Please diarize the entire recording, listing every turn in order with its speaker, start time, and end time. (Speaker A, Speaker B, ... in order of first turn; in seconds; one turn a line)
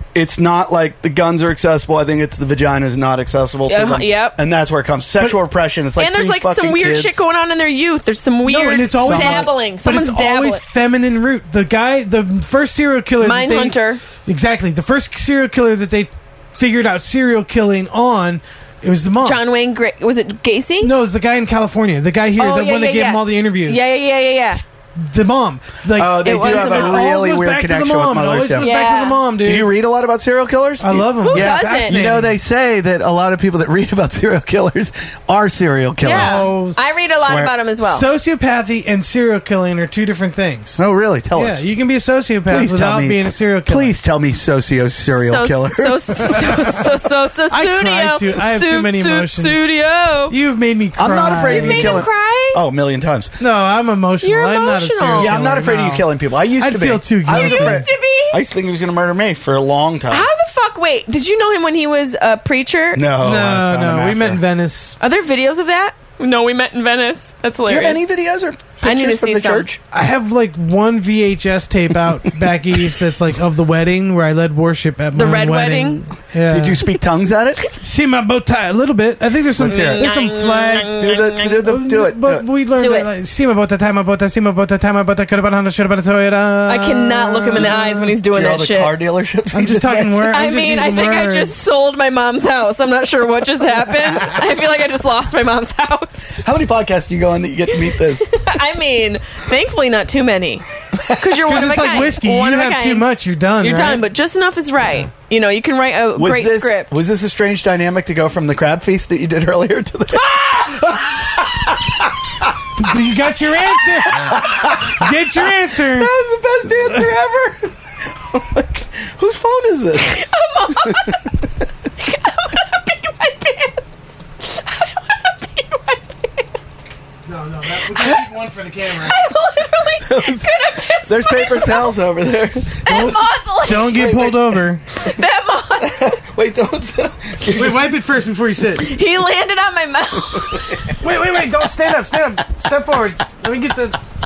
Speaker A: 0.1-7.2
Speaker B: 3.7-4.4
Speaker B: 6.0-10.6
Speaker C: 8.4-19.4
Speaker A: 9.0-9.5
Speaker B: 13.2-14.0
Speaker B: 19.2-20.9
Speaker C: 20.8-24.0
Speaker B: 22.4-24.6
Speaker C: 25.0-29.7
Speaker A: 25.9-28.7
Speaker B: 26.2-27.1
Speaker B: 28.6-29.2
Speaker A: 29.4-36.5
Speaker C: 30.8-32.4
Speaker B: 31.2-32.0
Speaker B: 36.0-38.1
Speaker C: 36.1-36.8
Speaker A: 37.2-37.5
Speaker C: 37.8-40.8
Speaker A: 40.8-41.7
Speaker C: 41.4-44.0
Speaker A: 42.5-46.5
Speaker B: 45.2-50.3
Speaker C: 46.2-46.6
Speaker C: 47.5-49.7
Speaker C: 50.3-52.1
Speaker A: 51.0-53.3
Speaker B: 51.4-52.6
Speaker C: 53.4-57.9
Speaker B: 54.2-55.4
Speaker A: 55.2-60.3
Speaker B: 57.3-58.4
Speaker B: 60.1-63.1
Speaker A: 62.9-64.4
Speaker C: 63.2-65.0
Speaker B: 65.0-68.0
Speaker A: 67.7-69.8
Speaker B: 68.8-69.7
Speaker C: 69.9-76.8
Speaker B: 75.2-76.1
Speaker A: 76.5-77.6
Speaker C: 77.8-81.0
Speaker A: 79.6-80.1
Speaker B: 79.6-81.6
Speaker A: 81.0-82.5
Speaker C: 81.6-88.2
Speaker B: 82.8-83.1
Speaker B: 86.7-89.0
Speaker A: 88.2-90.4
Speaker C: 89.5-91.5
Speaker B: 90.3-96.3
Speaker A: 96.3-98.3
Speaker B: 97.7-103.1
Speaker C: 101.4-104.1
Speaker B: 103.6-107.0
Speaker A: 106.2-112.8
Speaker B: 110.1-111.1
Speaker C: 112.8-116.1
Speaker A: 114.1-120.2
Speaker B: 120.0-121.2
Speaker A: 120.7-121.2
Speaker B: 122.0-123.8
Speaker B: 124.4-126.5
Speaker C: 127.3-129.2
Speaker B: 128.9-132.0
Speaker A: 130.0-133.2
Speaker B: 132.8-134.3
Speaker C: 132.9-134.8
Speaker A: 133.9-134.6
Speaker B: 134.9-136.2
Speaker A: 135.8-137.9
Speaker C: 137.5-138.9
Speaker B: 138.8-140.8
Speaker A: 140.3-140.9
Speaker C: 140.9-144.0